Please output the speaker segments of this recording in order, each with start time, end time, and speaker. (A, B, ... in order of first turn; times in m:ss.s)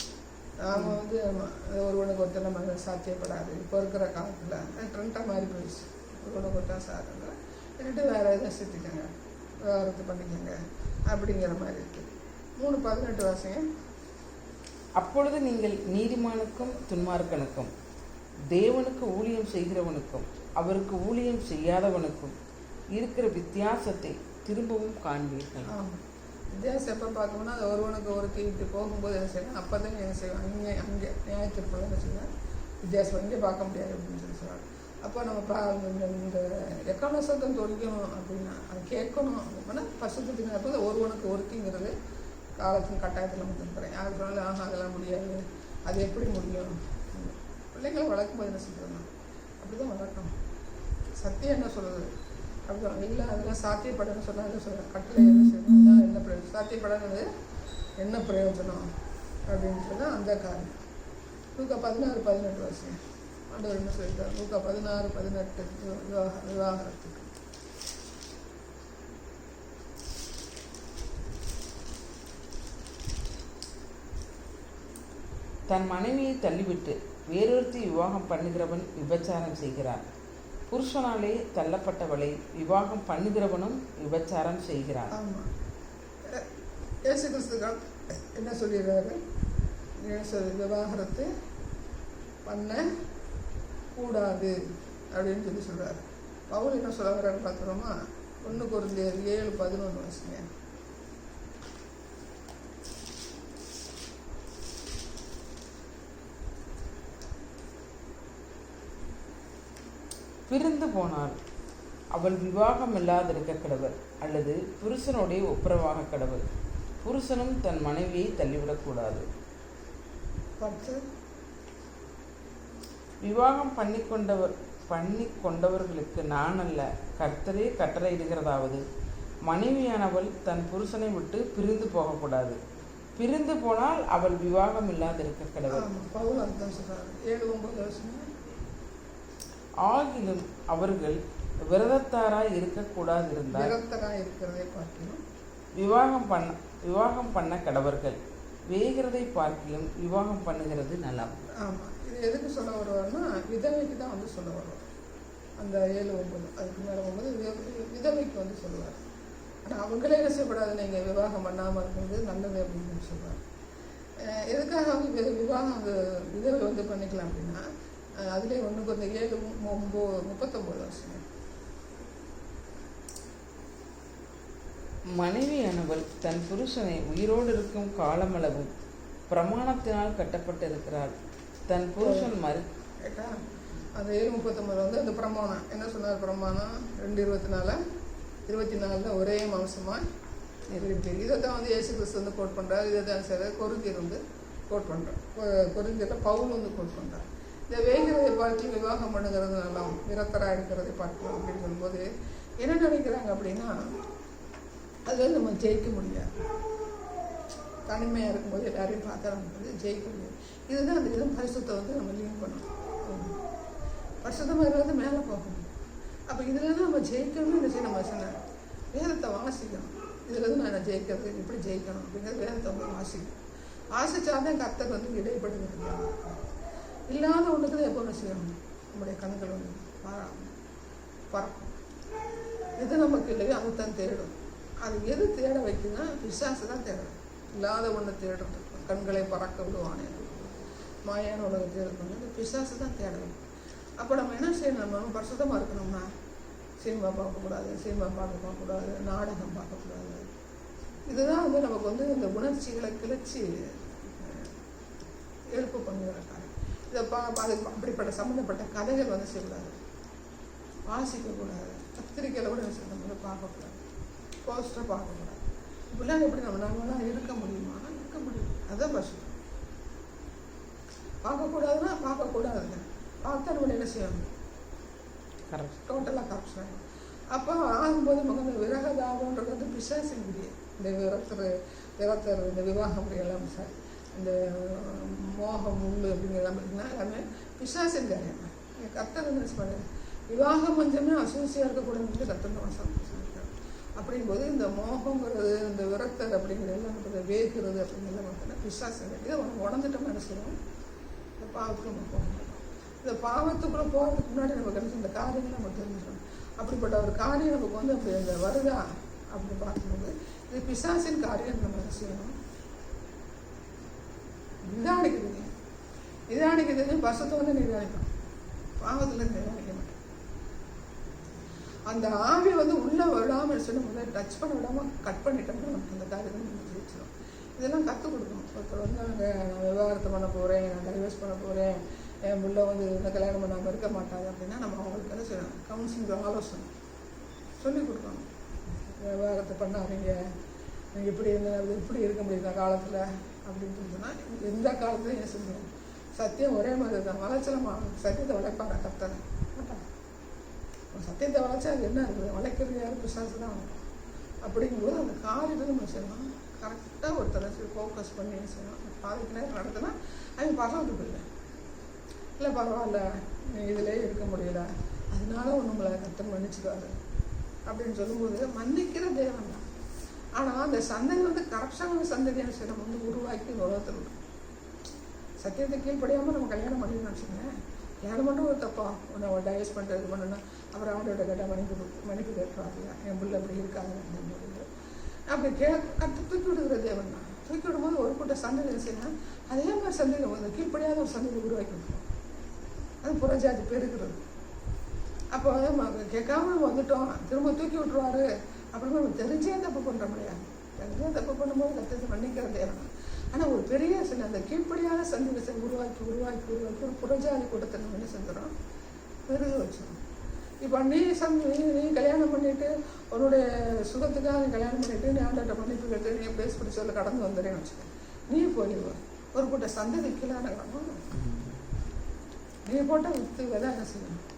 0:00.6-0:09.1 A
0:00.7-0:01.0 B
0:09.7-0:10.6 A
0:11.1-0:13.6 A
0:15.0-0:17.7 B
0:18.5-0:22.4 B
0:23.0-0:25.7 B
0:25.7-0:26.0 A
0:26.5-0:32.3 A
0:32.8-0:41.9 A
0:42.6-0:49.1 A
0:49.6-0:50.3 A
0:51.2-0:52.1 A
0:52.7-0:57.3 A
0:58.0-0:58.9 A
0:59.5-1:00.8 A
1:01.6-1:03.0 A
1:03.5-1:07.3 A
1:15.7-1:20.0 B
1:20.7-1:25.1 B
1:25.1-1:25.5 A
1:27.1-1:29.2 A
1:30.0-1:31.3 A
1:32.4-1:32.9 A
1:34.0-1:34.6 A
1:35.1-1:40.4 A
1:50.5-1:51.4 B
1:52.1-1:56.4 B
1:57.0-1:59.2 B
2:00.6-2:01.0 A
2:03.2-2:08.8 B
2:09.5-2:12.6 B
2:13.2-2:15.9 B
2:15.7-2:18.2 A
2:19.8-2:21.2 B
2:21.7-2:23.7 B
2:23.5-2:25.2 A
2:25.8-2:28.2 B
2:28.7-2:31.5 B
2:31.6-2:34.9 A
2:35.6-2:39.0 A
2:39.6-2:43.4 A
2:44.3-2:47.6 A
2:48.3-2:51.2 A
2:55.2-2:58.7 B
2:59.3-3:01.1 B
3:01.7-3:02.7 B
3:02.0-3:02.3 A
3:03.0-3:03.4 A
3:04.0-3:07.8 A
3:08.5-3:10.0 A
3:10.7-3:11.0 B
3:10.7-3:22.0 A
3:22.6-3:23.7 A
3:25.1-3:26.3 A
3:27.9-3:33.4 A
3:34.2-3:35.7 A
3:36.3-3:38.4 A
3:38.9-3:43.4 A
3:43.9-3:46.5 A
3:47.1-3:50.5 A
3:51.3-3:51.8 A
3:52.8-4:03.4 A
4:04.0-4:06.1 A
4:06.8-4:10.3 A
4:11.1-4:14.5 A
4:15.5-4:19.8 A
4:20.9-4:23.8 A
4:24.5-4:29.4 A
4:31.2-4:34.3 A
4:35.5-4:35.9 B
4:35.9-4:36.8 A
4:37.3-5:00.6 A
5:01.4-5:12.3 A
5:14.6-5:15.5 A
5:16.3-5:18.1 A
5:18.8-5:20.0 A
5:21.9-5:36.7 A
5:37.6-5:38.3 A
5:39.0-5:40.2 A
5:40.9-5:49.8 A
5:50.9-5:53.8 A
5:54.4-6:01.2 A
6:02.4-6:07.0 A
6:07.7-6:09.6 A
6:10.4-6:14.2 A
6:15.4-6:17.5 A
6:18.0-6:24.6 A
6:25.3-6:32.0 A
6:33.0-6:34.2 A
6:35.3-6:48.5 A
6:49.3-6:50.0 A
6:50.6-7:01.0 A
7:01.1-7:01.6 B
7:02.7-7:04.2 A